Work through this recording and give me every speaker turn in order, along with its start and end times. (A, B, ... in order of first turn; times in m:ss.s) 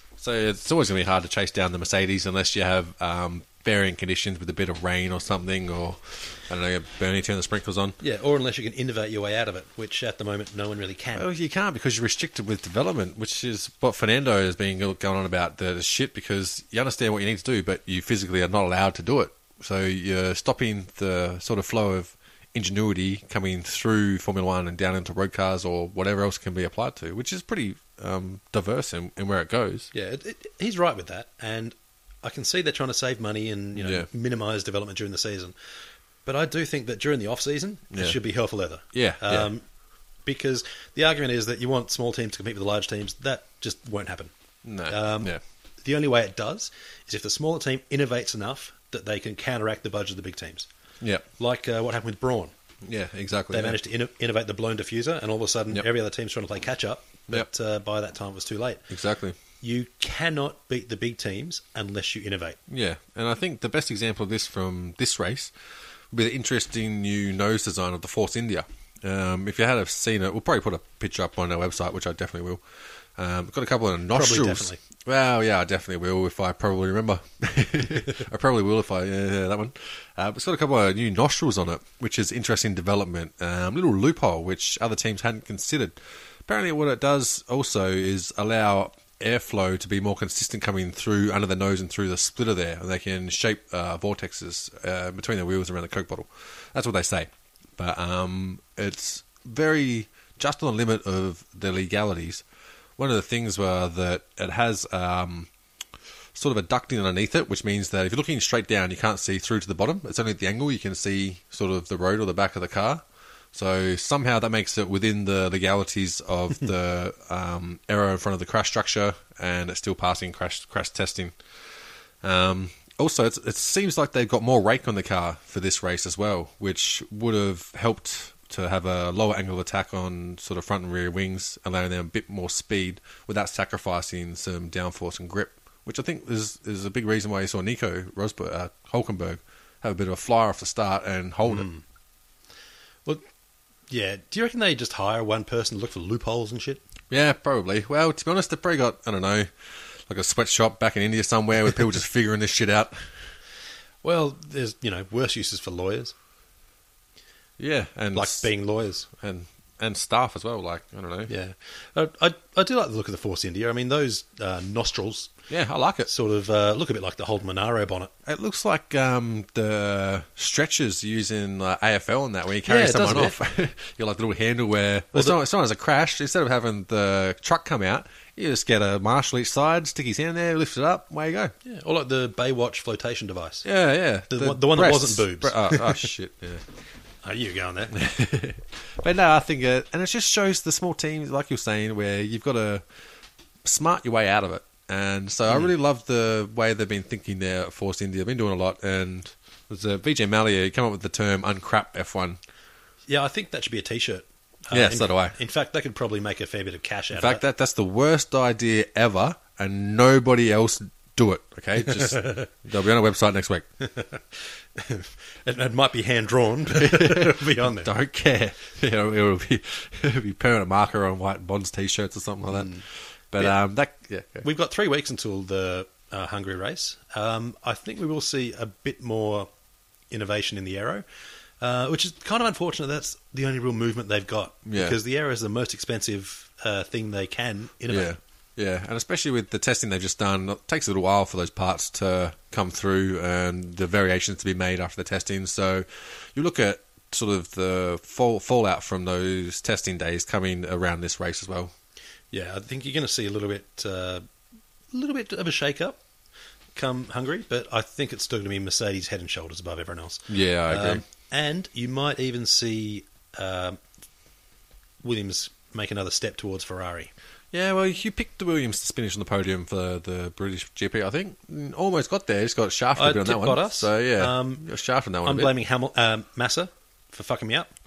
0:00.2-0:08.0 A
0:08.0-0:11.2 B
0:11.1-0:29.9 A
0:29.9-0:35.5 B
0:33.8-0:34.1 A
0:36.2-0:39.6 B
0:37.9-0:38.2 A
0:38.9-0:39.5 A
0:40.2-0:44.3 B
0:44.6-0:45.4 A
0:44.9-0:50.7 B
0:51.0-0:51.3 A
0:51.4-0:52.5 B
0:52.8-0:53.8 A
0:53.5-0:58.8 B
0:58.9-0:59.4 A
0:59.6-1:02.6 B
1:02.7-1:05.5 A
1:06.1-1:12.6 A
1:13.2-1:42.4 A
1:14.1-1:14.8 B
1:43.0-1:45.5 A
1:46.3-2:01.4 A
2:02.2-2:21.6 A
2:21.4-2:21.8 B
2:23.9-2:26.8 B
2:27.1-2:29.5 A
2:30.1-2:33.2 A
2:34.0-2:36.1 B
2:37.6-2:38.5 A
2:38.1-2:39.1 B
2:39.1-2:41.3 A
2:41.3-2:45.3 B
2:45.5-2:46.1 A
2:46.0-2:48.1 B
2:48.2-3:01.5 A
2:52.6-2:53.4 B
2:55.1-2:55.4 B
3:01.6-3:03.6 B
3:03.6-3:06.6 A
3:04.3-3:06.1 B
3:07.2-3:07.9 B
3:07.9-3:12.8 A
3:13.6-3:22.4 A
3:23.1-3:27.4 B
3:24.7-3:25.4 A
3:27.1-3:33.7 A
3:31.8-3:32.5 B
3:33.8-3:37.9 B
3:36.7-3:44.5 A
3:42.5-3:42.8 B
3:44.4-3:49.5 B
3:50.1-3:51.0 B
3:51.6-3:58.2 B
3:54.6-3:55.0 A
3:57.9-4:11.7 A
4:12.3-4:14.2 B
4:14.9-4:16.0 B
4:16.7-4:23.8 B
4:20.3-4:21.0 A
4:25.0-4:27.1 B
4:27.5-4:35.5 A
4:33.0-4:34.6 B
4:35.2-4:37.7 B